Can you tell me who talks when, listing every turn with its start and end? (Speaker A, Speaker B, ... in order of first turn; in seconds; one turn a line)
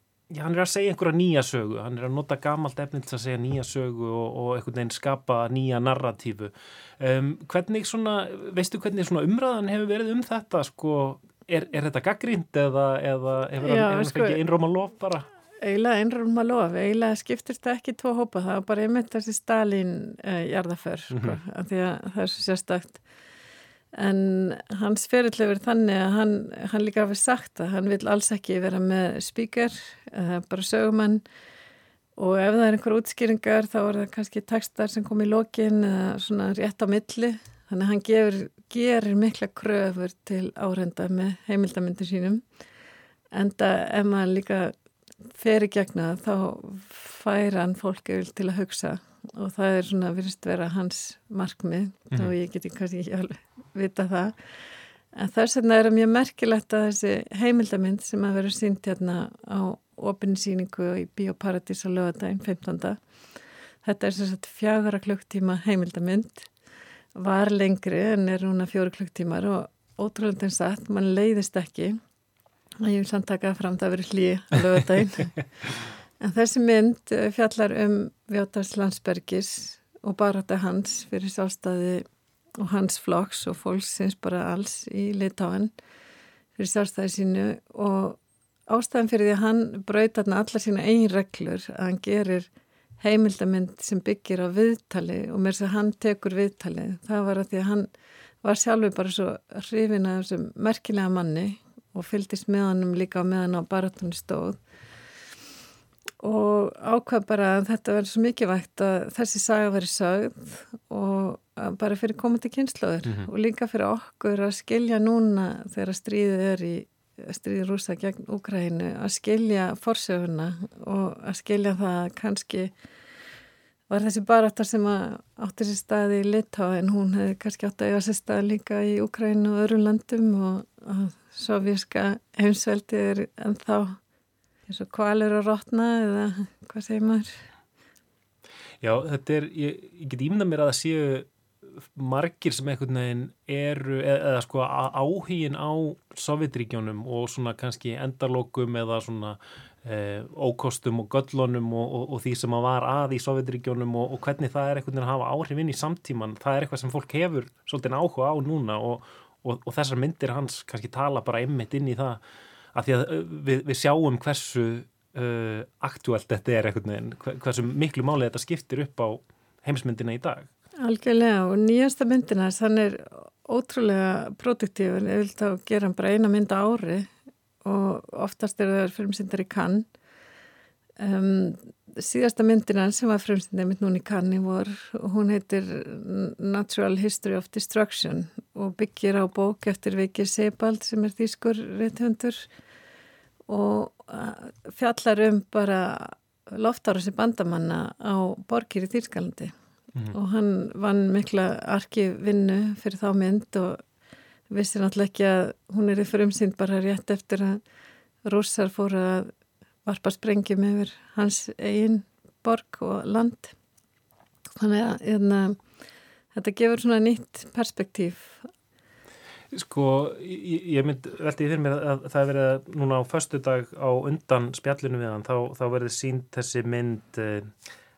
Speaker A: 0.3-15.3
Speaker B: 13.6-14.4
Speaker B: 15.6-23.0
Speaker A: 21.1-21.4
Speaker B: 24.0-31.2
Speaker B: 32.2-42.4
Speaker B: 43.3-44.7
Speaker B: 45.3-54.4
Speaker B: 55.1-63.0
Speaker B: 63.8-66.5
Speaker B: 67.2-72.0
Speaker B: 72.8-75.3
Speaker B: 76.2-82.0
Speaker B: 82.6-85.7
Speaker B: 86.6-92.5
Speaker B: 93.0-97.9
Speaker B: 98.4-104.6
Speaker B: 106.2-122.7
Speaker A: 113.0-113.3
Speaker B: 123.9-134.0
Speaker B: 134.7-137.4
Speaker A: 138.8-162.2
Speaker A: 162.7-170.5
Speaker B: 170.8-177.1
Speaker B: 177.6-179.8
Speaker B: 181.0-192.5
Speaker B: 193.5-199.5
Speaker B: 200.1-203.8
Speaker B: 204.5-207.6
Speaker B: 208.2-209.3
Speaker B: 209.8-213.5
Speaker B: 214.6-215.6
Speaker B: 216.3-218.5
Speaker A: 219.5-227.5